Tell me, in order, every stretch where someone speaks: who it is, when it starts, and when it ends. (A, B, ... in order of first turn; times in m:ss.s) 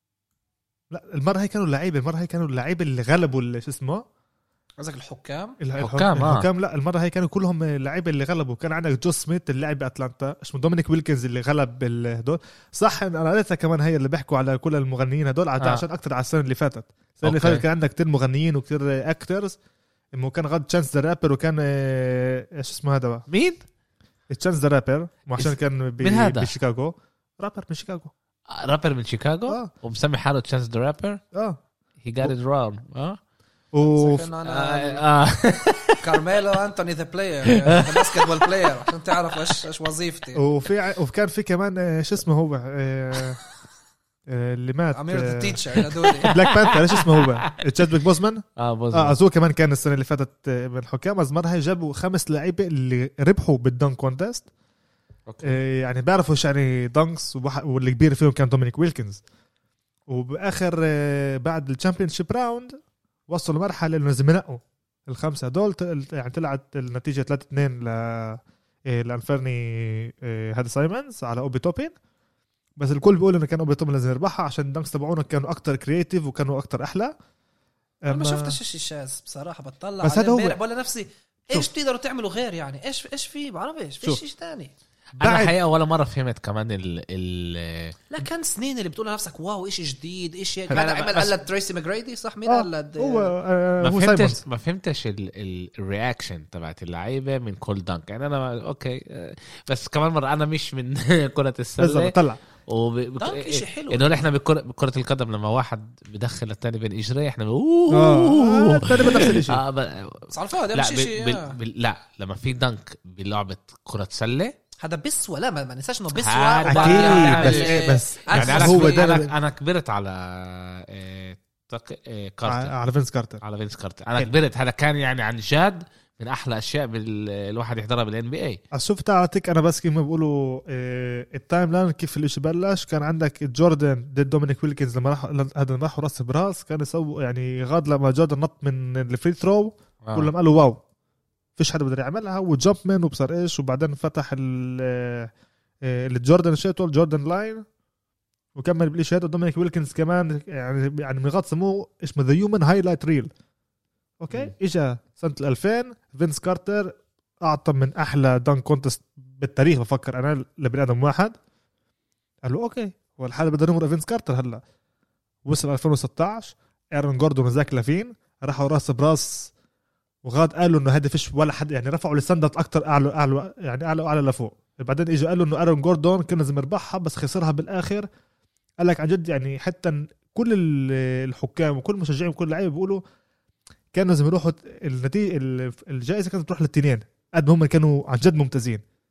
0:00.9-0:04.0 A
0:04.8-0:05.6 B
0:05.6-0:19.6 A
0:05.8-0:06.5 C
0:17.2-0:17.6 C
0:20.1-0:23.2 A
0:23.3-0:23.6 C
0:24.3-0:28.1 A
0:25.4-0:26.5 C
0:28.5-0:31.2 C
0:31.3-0:31.6 A
0:32.0-0:33.2 C
0:33.7-0:34.3 A
0:33.8-0:35.0 B
0:34.4-0:36.2 C
0:36.0-0:40.4 B
0:37.7-0:38.8 C
0:40.4-0:43.4 A
0:44.3-0:45.6 A
0:44.9-0:46.3 B
0:45.8-0:47.8 C
0:46.3-0:54.5 A
0:48.6-0:49.2 C
0:55.3-0:55.6 C
0:55.4-0:59.2 A
1:00.1-1:02.8 A
1:03.3-1:11.9 A
1:12.8-1:17.1 A
1:18.0-1:18.6 A
1:18.1-1:24.7 B
1:20.0-1:20.6 A
1:25.2-1:28.0 C
1:25.2-1:25.6 A
1:28.1-1:33.3 B
1:30.7-1:31.4 C
1:32.4-1:34.4 A
1:33.8-1:42.2 C
1:41.8-1:42.4 A
1:42.7-1:54.5 C
1:43.2-1:44.1 B
1:47.9-1:49.6 A
1:50.3-1:51.6 B
1:54.8-1:59.2 B
1:56.2-2:02.7 C
1:56.7-1:59.3 A
2:02.4-2:03.4 A
2:03.4-2:08.6 C
2:08.7-2:20.8 A
2:20.0-2:20.3 C
2:21.6-2:25.3 A
2:25.8-2:27.6 A
2:28.5-2:33.3 A
2:34.2-2:41.4 A
2:42.4-2:44.6 A
2:45.4-2:49.5 A
2:50.2-2:58.1 A
2:58.8-3:03.0 A
3:03.9-3:08.8 A